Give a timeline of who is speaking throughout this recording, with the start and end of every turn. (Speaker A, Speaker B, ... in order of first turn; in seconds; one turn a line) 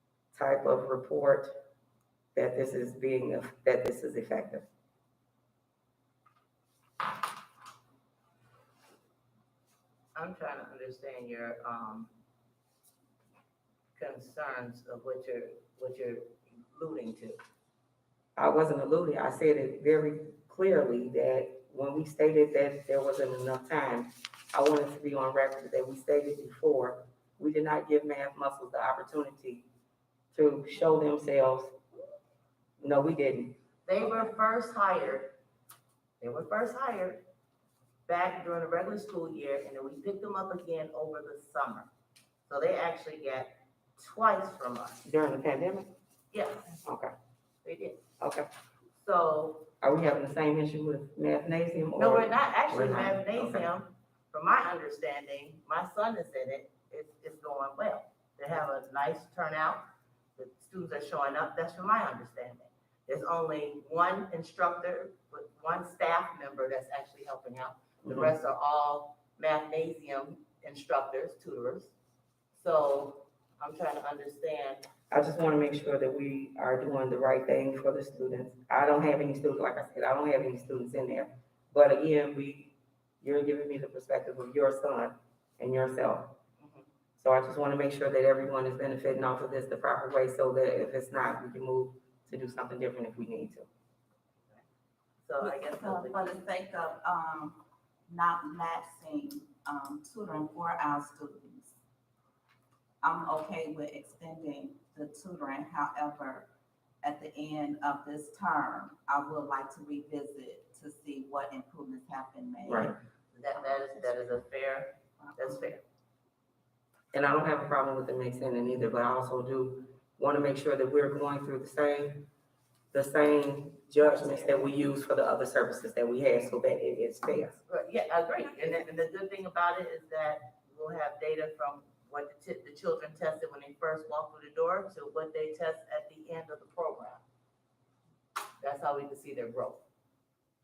Speaker A: 0.3-1.5
Speaker A: 2.3-4.6
Speaker B: 10.2-12.1
Speaker B: 13.9-17.4
Speaker A: 18.4-29.6
Speaker A: 30.3-31.7
Speaker A: 32.8-33.5
Speaker B: 33.9-35.3
Speaker B: 36.2-37.2
Speaker B: 38.0-41.9
Speaker B: 42.5-45.0
Speaker A: 45.0-45.9
Speaker B: 46.3-46.8
Speaker A: 46.8-47.1
Speaker B: 47.6-48.0
Speaker A: 48.2-48.5
Speaker B: 48.9-49.7
Speaker A: 49.8-53.7
Speaker B: 51.9-59.8
Speaker B: 60.4-71.9
Speaker A: 68.0-68.3
Speaker B: 72.5-74.8
Speaker A: 75.1-86.3
Speaker B: 86.6-86.8
Speaker A: 87.2-93.7
Speaker B: 95.2-96.3
Speaker C: 95.4-101.8
Speaker C: 103.0-106.5
Speaker C: 107.0-114.4
Speaker A: 112.7-112.9
Speaker B: 113.3-115.8
Speaker C: 115.2-115.7
Speaker A: 117.1-122.3
Speaker A: 122.9-127.6
Speaker B: 127.7-137.2
Speaker B: 138.6-139.8